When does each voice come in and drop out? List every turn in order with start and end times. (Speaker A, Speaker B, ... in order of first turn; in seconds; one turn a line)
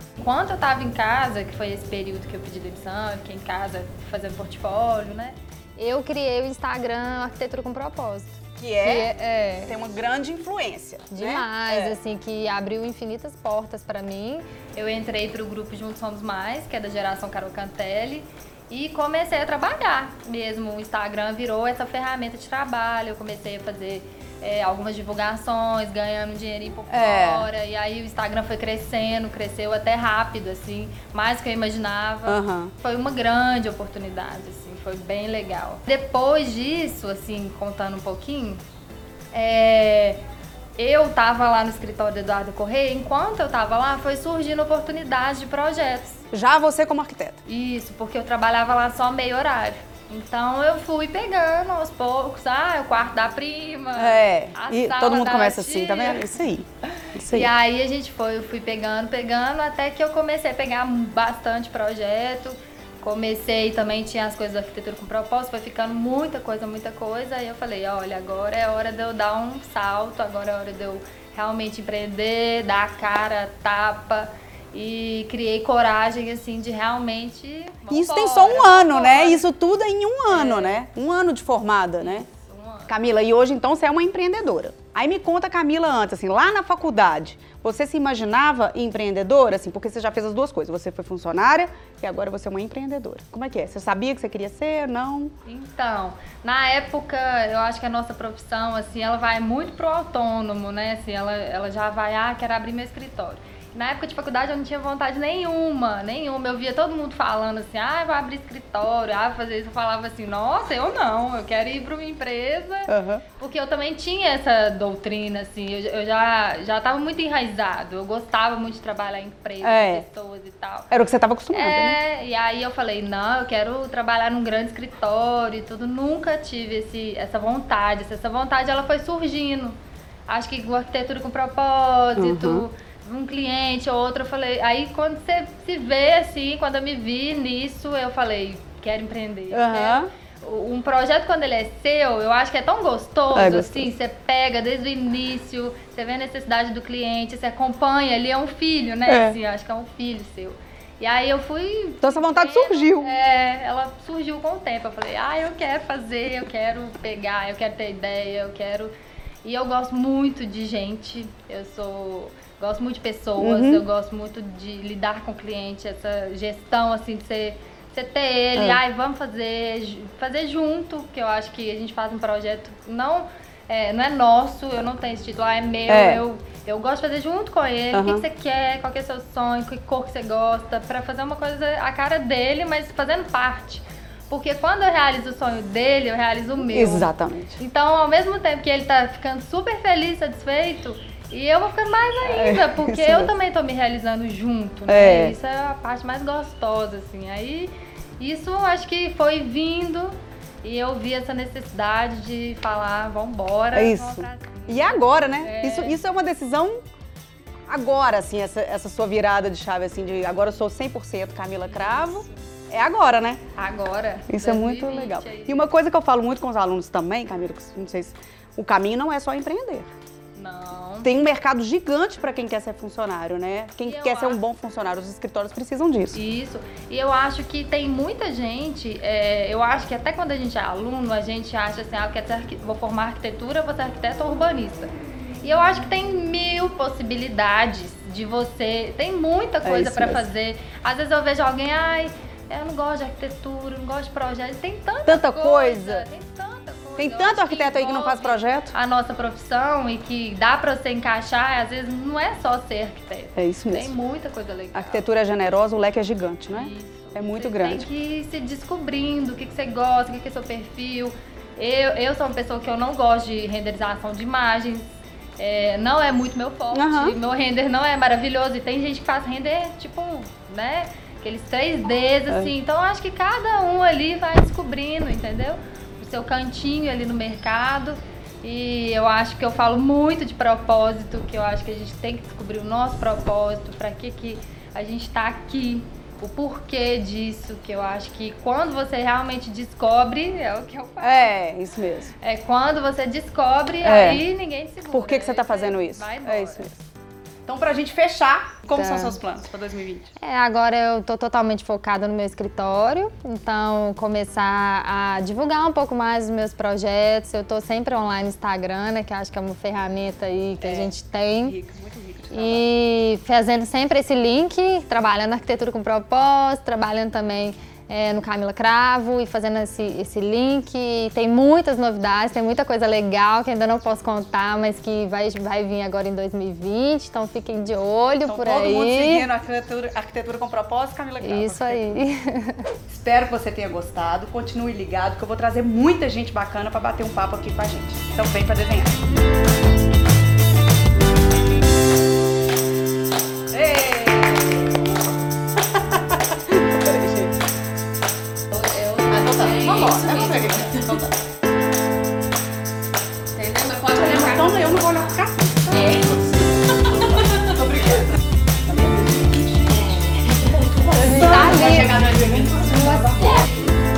Speaker A: 0.2-9.8
Speaker B: 8.6-9.1
Speaker B: 9.7-11.9
Speaker A: 11.1-38.6
Speaker B: 26.9-27.5
Speaker B: 32.2-32.7
Speaker A: 39.3-40.2
Speaker A: 40.8-46.2
Speaker B: 46.3-47.4
Speaker A: 47.5-56.4
Speaker B: 53.9-57.5
Speaker A: 57.0-79.5
Speaker B: 77.9-82.3
Speaker A: 80.3-80.8
Speaker A: 82.0-82.9
Speaker B: 82.9-95.3
Speaker A: 95.4-120.9
Speaker B: 112.9-113.2
Speaker B: 119.6-120.0
Speaker B: 120.9-122.0
Speaker A: 121.5-158.9
Speaker B: 132.2-132.7
Speaker B: 139.5-140.1
Speaker B: 143.3-143.9
Speaker B: 149.1-149.4
Speaker B: 152.0-153.2
Speaker A: 159.4-206.0
Speaker B: 163.4-163.8
Speaker B: 175.9-176.2
Speaker B: 177.9-178.2
Speaker B: 186.7-187.6
Speaker B: 192.2-193.3
Speaker B: 194.9-195.3
Speaker B: 203.7-206.8
Speaker B: 207.7-213.4
Speaker A: 211.7-212.3
Speaker A: 213.5-215.7
Speaker B: 214.3-219.9
Speaker A: 220.3-221.1
Speaker B: 221.0-226.2
Speaker A: 223.8-224.4
Speaker A: 226.1-255.1
Speaker B: 239.6-240.3
Speaker B: 245.1-246.1
Speaker B: 247.0-248.7
Speaker B: 253.3-253.9
Speaker B: 254.7-257.9
Speaker A: 256.5-291.4
Speaker B: 266.7-267.2
Speaker B: 291.0-292.1
Speaker A: 292.2-296.8
Speaker B: 293.8-294.2
Speaker B: 294.9-296.7
Speaker B: 297.4-300.1
Speaker A: 298.7-299.2
Speaker A: 300.2-311.6
Speaker B: 310.6-312.6
Speaker A: 312.3-329.3
Speaker B: 328.2-332.0
Speaker A: 331.2-332.6
Speaker B: 332.9-339.0
Speaker B: 343.5-344.9
Speaker B: 345.7-347.3
Speaker C: 348.7-350.4
Speaker B: 349.0-351.2
Speaker C: 353.4-354.5
Speaker B: 353.8-356.2
Speaker B: 356.8-358.1
Speaker B: 358.7-363.4
Speaker A: 360.9-362.1
Speaker A: 362.7-363.4